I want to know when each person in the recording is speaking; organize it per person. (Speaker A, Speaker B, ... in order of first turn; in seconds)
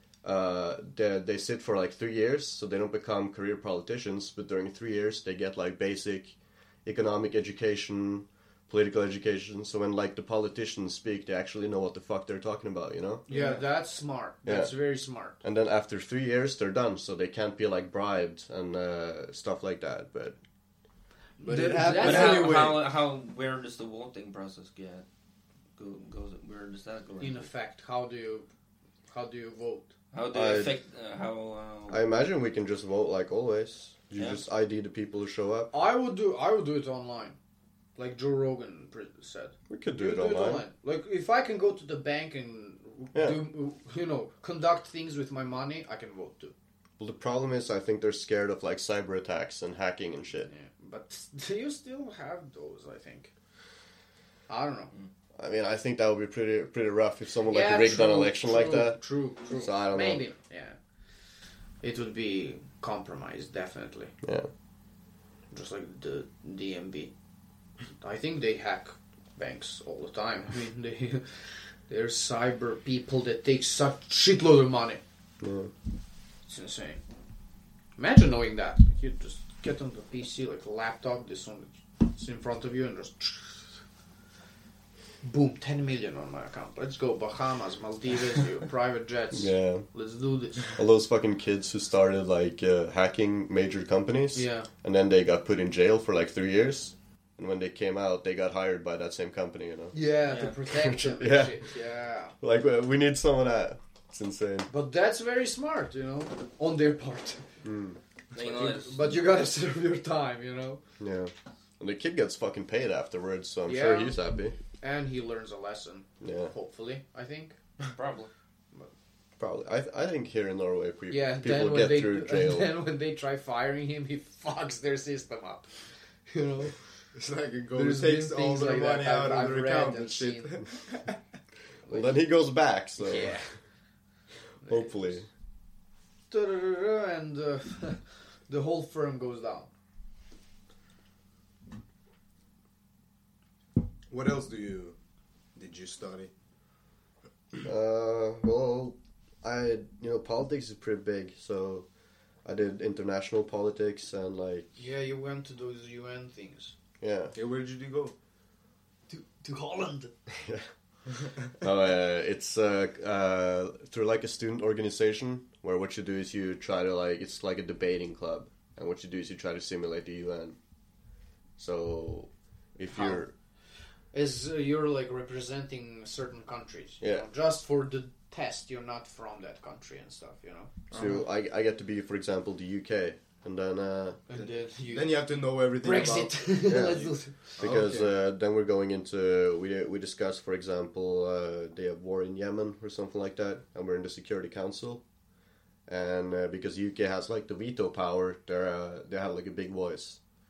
Speaker A: 0.2-13.2, 14.4-14.7, 15.4-20.4, 30.3-30.7, 31.9-35.7, 39.7-40.6, 43.1-43.5, 47.0-50.5, 55.4-59.0, 59.5-60.2, 64.2-64.5, 75.4-75.7, 89.3-89.8, 90.7-100.0, 100.6-101.7, 102.4-104.7, 107.6-108.0, 111.0-114.5, 116.2-116.5, 119.4-122.7, 131.9-133.4, 134.6-135.3, 147.6-151.9, 152.4-154.7, 157.0-157.3, 160.3-160.7, 161.6-170.6, 171.6-173.3, 177.0-177.3, 180.9-184.2, 186.6-195.0, 195.9-200.2
Speaker B: 13.3-15.4, 21.4-22.8, 27.2-28.5, 29.1-29.9, 35.7-37.4, 38.0-46.5, 50.5-53.3, 54.5-54.9, 57.5-60.8, 61.8-64.1, 65.5-67.1, 68.0-75.0, 76.5-77.0, 78.0-83.6, 85.2-90.8, 94.3-94.7, 99.9-102.3, 104.7-107.5, 108.3-110.8, 113.7-114.2, 114.8-117.5, 121.1-125.7, 126.3-126.8, 127.7-130.5, 131.8-132.2, 133.0-133.5, 134.6-135.2, 136.3-139.7, 154.8-156.7, 159.1-160.1, 172.9-173.2, 174.1-180.7, 184.3-187.5
Speaker C: 13.3-13.6, 21.4-22.8, 127.2-131.2, 144.1-144.9, 145.6-146.3, 157.3-158.1, 180.9-181.2, 184.9-186.4, 187.6-188.1
Speaker D: 21.9-25.0, 25.8-27.5, 30.1-32.0, 34.1-34.4, 100.3-100.5, 108.3-109.0, 117.9-118.3